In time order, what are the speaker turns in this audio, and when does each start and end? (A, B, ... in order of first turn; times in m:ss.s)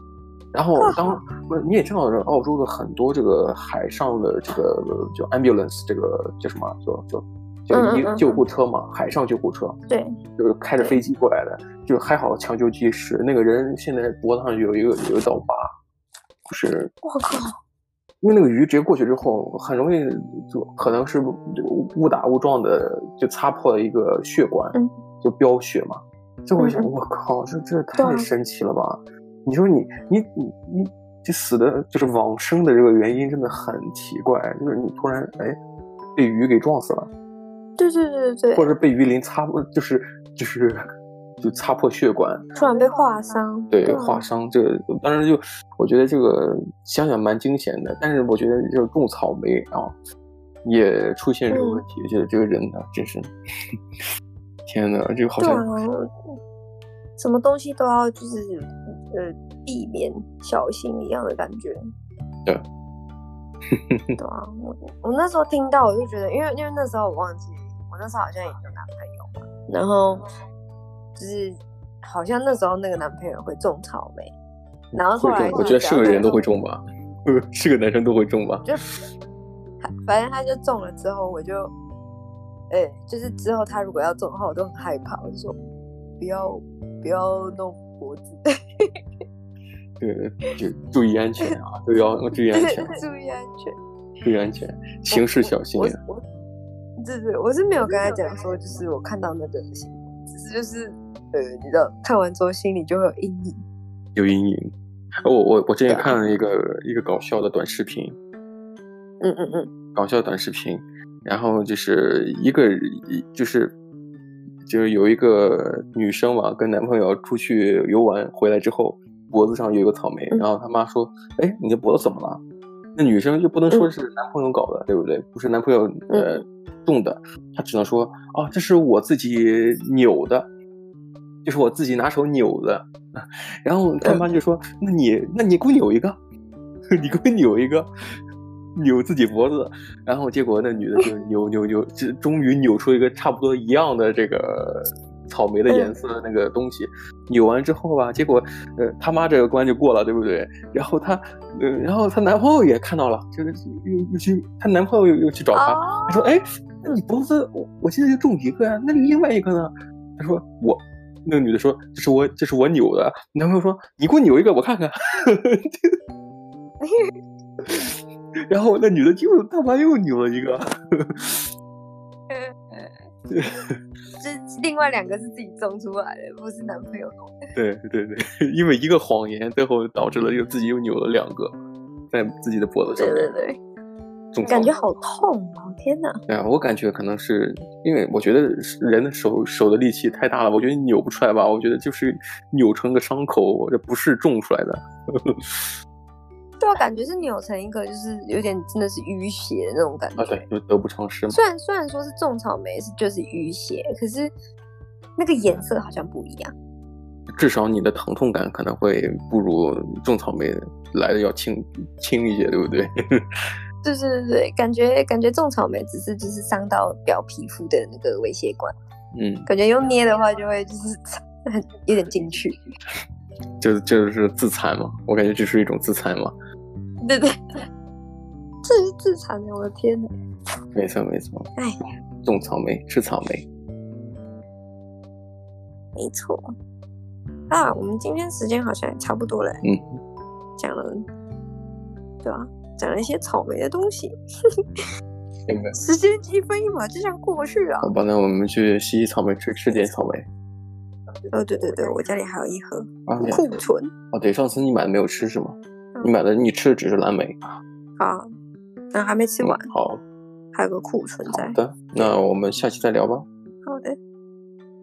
0:00.5-0:09.8 A
0:00.8-0:01.2 B
0:07.7-0:08.4 B
0:09.9-0:10.2 B
0:10.4-0:15.6 A
0:16.5-0:16.9 A
0:17.0-0:17.6 B
0:18.2-0:35.6 A
0:26.6-0:26.9 B
0:28.0-0:28.3 B
0:36.1-0:37.1 A
0:37.8-0:38.7 B
0:38.5-0:40.8 A
0:41.4-0:42.4 A
0:42.5-0:44.2 B
0:43.7-0:50.0 A
0:50.6-0:53.3 A
0:51.5-0:51.8 B
0:54.7-0:55.6 A
0:55.4-0:56.1 B
0:57.2-1:01.8 B
1:03.7-1:04.0 A
1:04.2-1:10.2 B
1:11.1-1:14.3 B
1:14.9-1:16.5 B
1:14.9-1:18.7 A
1:19.8-1:21.7 B
1:22.7-1:25.6 B
1:26.2-1:29.0 B
1:30.0-1:33.0 A
1:32.5-1:33.8 B
1:34.2-1:36.0 A
1:35.1-1:36.2 B
1:37.0-1:43.6 B
1:44.1-1:44.7 A
1:45.2-1:48.2 A
1:45.9-1:46.2 B
1:49.2-1:49.7 B
1:49.9-1:53.8 A
1:54.6-2:02.4 A
2:02.9-2:10.5 A
2:06.1-2:06.4 B
2:11.4-2:16.2 A
2:16.9-2:17.9 A
2:18.7-2:45.9 A
2:25.7-2:25.9 B
2:35.5-2:36.3 B
2:46.8-2:47.1 B
2:48.5-2:51.5 A
2:52.3-2:53.0 B
2:53.3-2:53.8 A
2:54.2-2:57.4 B
2:57.5-3:01.5 A
3:02.1-3:03.3 A
3:03.0-3:03.6 B
3:04.3-3:04.7 A
3:04.4-3:06.2 B
3:06.3-3:15.7 A
3:16.6-3:20.4 B
3:20.2-3:21.4 A
3:21.3-3:24.3 B
3:25.2-3:26.5 B
3:27.4-3:33.2 A
3:33.8-3:38.7 B
3:39.1-3:39.5 A
3:39.5-3:42.6 B
3:43.6-3:46.3 A
3:47.0-3:47.3 B
3:48.6-3:50.1 B
3:50.7-3:51.5 A
3:52.2-3:53.4 A
3:56.0-3:56.5 B
3:57.5-3:59.6 B
3:59.6-4:00.0 A
4:00.6-4:01.0 B
4:02.2-4:04.1 B
4:05.5-4:05.7 A
4:05.8-4:07.9 B
4:07.8-4:10.2 A
4:11.3-4:13.9 B
4:13.1-4:13.6 A
4:14.1-4:17.5 A
4:18.0-4:18.3 B
4:18.9-4:19.7 B
4:19.4-4:20.0 A
4:20.5-4:22.1 B
4:21.3-4:23.2 A
4:23.6-4:24.0 B